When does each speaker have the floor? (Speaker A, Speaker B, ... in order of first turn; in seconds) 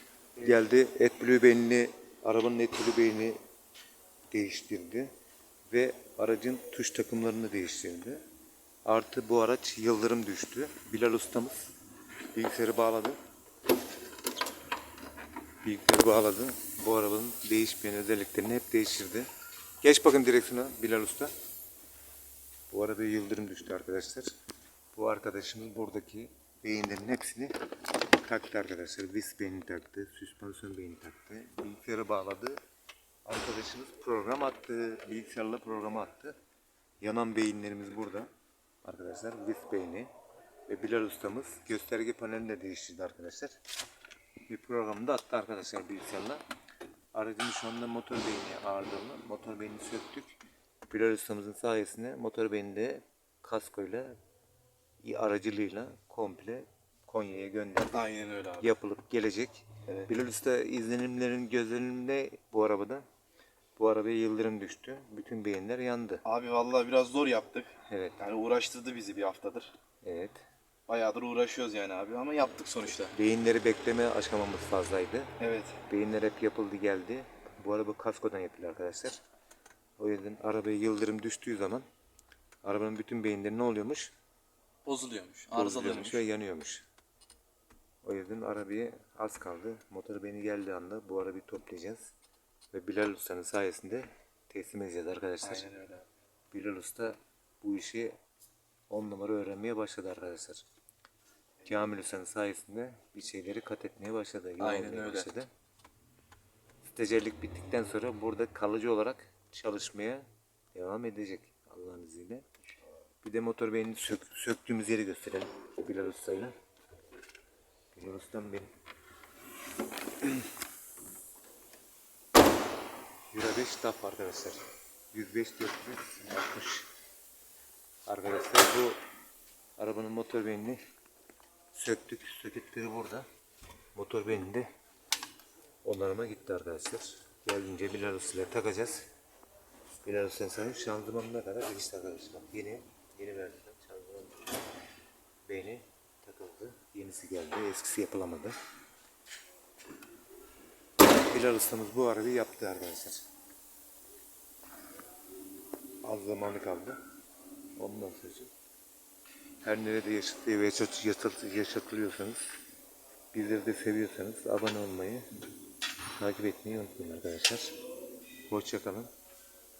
Speaker A: 0.4-3.4, 4.3-5.1, 5.7-8.2, 8.8-11.7, 12.3-13.2, 15.6-19.3, 19.8-21.3, 22.7-24.3, 24.9-27.5, 28.1-32.6, 33.2-36.4, 37.0-38.3, 38.8-40.1, 40.7-43.5, 44.5-46.4, 47.1-54.1, 55.0-58.0, 58.6-63.0, 63.8-66.2, 67.9-68.2, 70.0-70.4, 73.1-75.3, 75.9-79.2, 80.0-81.9, 82.6-84.1, 85.5-86.8, 88.0-92.0, 92.7-95.7, 96.5-98.1, 98.9-100.6, 101.7-105.5, 106.9-112.5, 113.2-116.5, 117.9-118.7, 123.3-126.9, 128.1-129.0, 129.8-130.8, 131.7-133.3, 133.9-134.7, 135.8-139.1, 139.9-144.4, 145.5-148.6, 151.1-153.2, 156.0-157.0, 157.8-158.5, 159.6-162.4, 163.3-165.2, 166.2-167.7, 168.5-169.1
Speaker B: 57.9-58.7, 66.2-69.7, 70.9-73.1, 75.4-75.8, 84.8-86.3, 95.4-96.0, 104.6-105.3